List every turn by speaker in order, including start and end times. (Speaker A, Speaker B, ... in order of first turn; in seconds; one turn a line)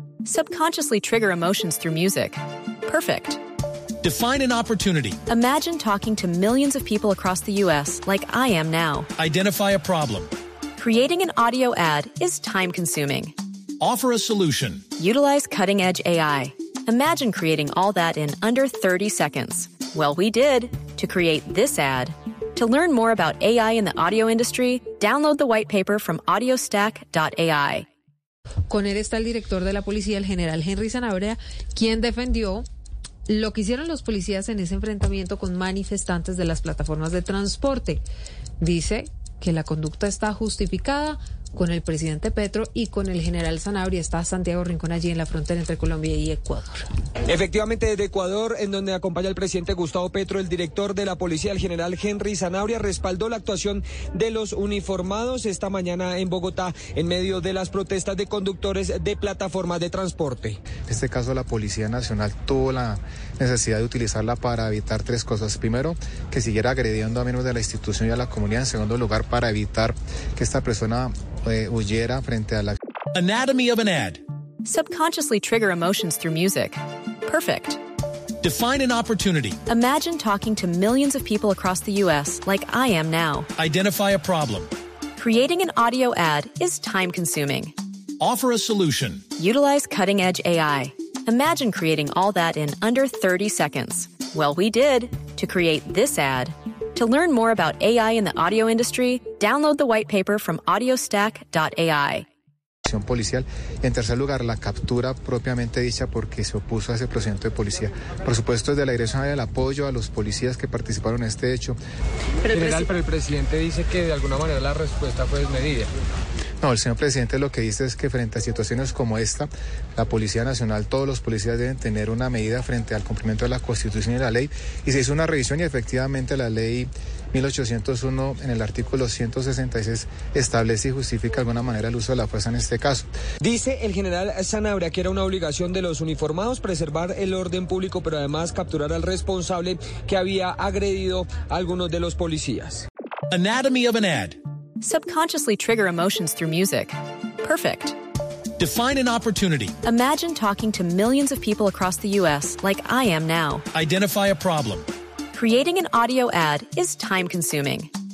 Speaker A: 0.2-3.4
Speaker B: 4.0-5.2
Speaker A: 5.3-9.1
Speaker B: 9.2-10.3
Speaker A: 10.8-13.3
Speaker B: 13.8-14.8
Speaker A: 15.0-27.9
Speaker C: 28.7-32.6
Speaker C: 33.3-38.0
Speaker C: 38.6-46.8
Speaker D: 47.3-60.6
Speaker E: 60.8-72.8
Speaker B: 73.1-74.2
Speaker A: 74.6-77.8
Speaker B: 78.4-79.6
Speaker A: 79.7-83.5
Speaker B: 83.6-84.7
Speaker A: 85.2-87.7
Speaker B: 88.2-89.2
Speaker A: 89.4-102.2
Speaker E: 102.8-111.8
Speaker D: 112.5-115.9
Speaker E: 116.6-133.1
Speaker D: 133.4-142.9
Speaker B: 143.3-144.3
Speaker A: 144.8-147.9
Speaker B: 148.6-149.8
Speaker A: 149.8-153.6
Speaker B: 153.7-154.9
Speaker A: 155.3-157.9